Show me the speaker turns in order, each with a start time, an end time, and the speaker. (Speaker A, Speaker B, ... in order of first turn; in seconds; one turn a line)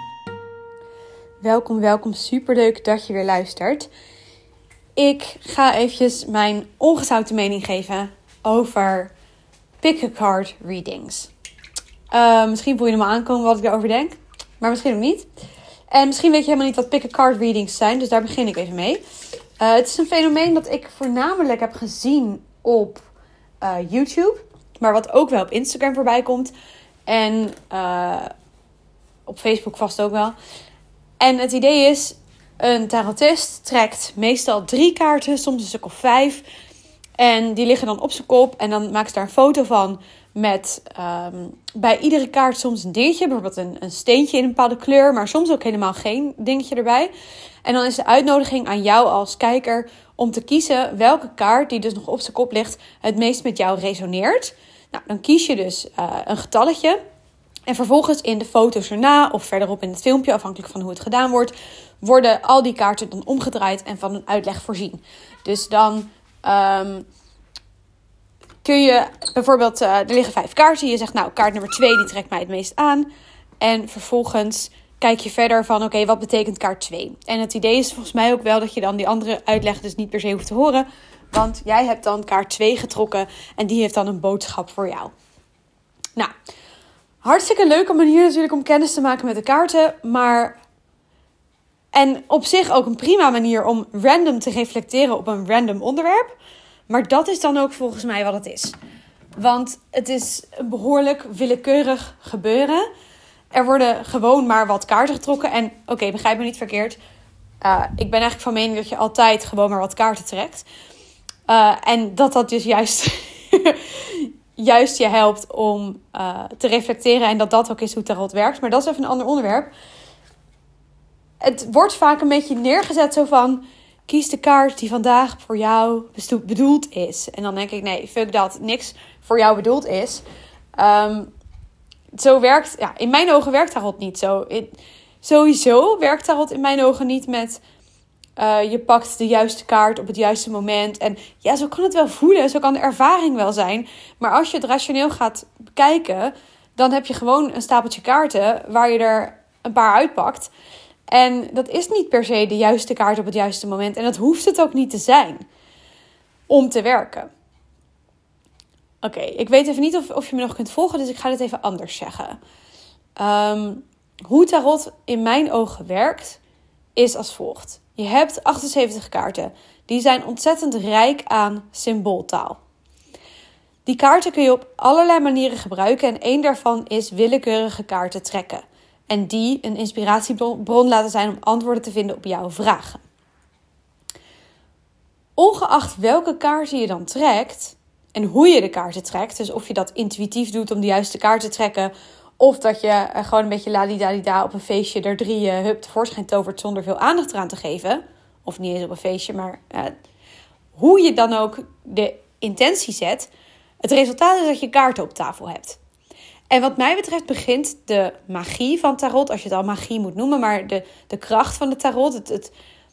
Speaker A: 1.4-3.9
Speaker A: 5.0-9.1
Speaker A: 9.8-11.3
Speaker A: 12.1-15.3
Speaker A: 15.9-19.0
Speaker A: 19.6-23.1
Speaker A: 23.6-26.5
Speaker A: 27.1-28.3
Speaker A: 29.2-30.4
Speaker A: 31.2-36.4
Speaker A: 37.2-47.1
Speaker A: 47.6-57.0
Speaker A: 57.7-67.0
Speaker A: 68.6-73.1
Speaker A: 73.6-85.1
Speaker A: 87.2-90.6
Speaker A: 91.9-96.3
Speaker A: 96.9-98.8
Speaker A: 99.4-102.9
Speaker A: 103.5-107.0
Speaker A: 107.6-110.7
Speaker A: 111.5-119.7
Speaker A: 121.4-130.2
Speaker A: 130.8-131.3
Speaker A: 132.1-137.6
Speaker A: 138.4-150.5
Speaker A: 151.1-155.4
Speaker A: 156.5-157.3
Speaker A: 159.0-162.4
Speaker A: 163.2-166.4
Speaker A: 166.9-172.6
Speaker A: 173.8-183.0
Speaker A: 185.3-199.9
Speaker A: 200.8-203.3
Speaker A: 203.8-205.8
Speaker A: 206.5-212.5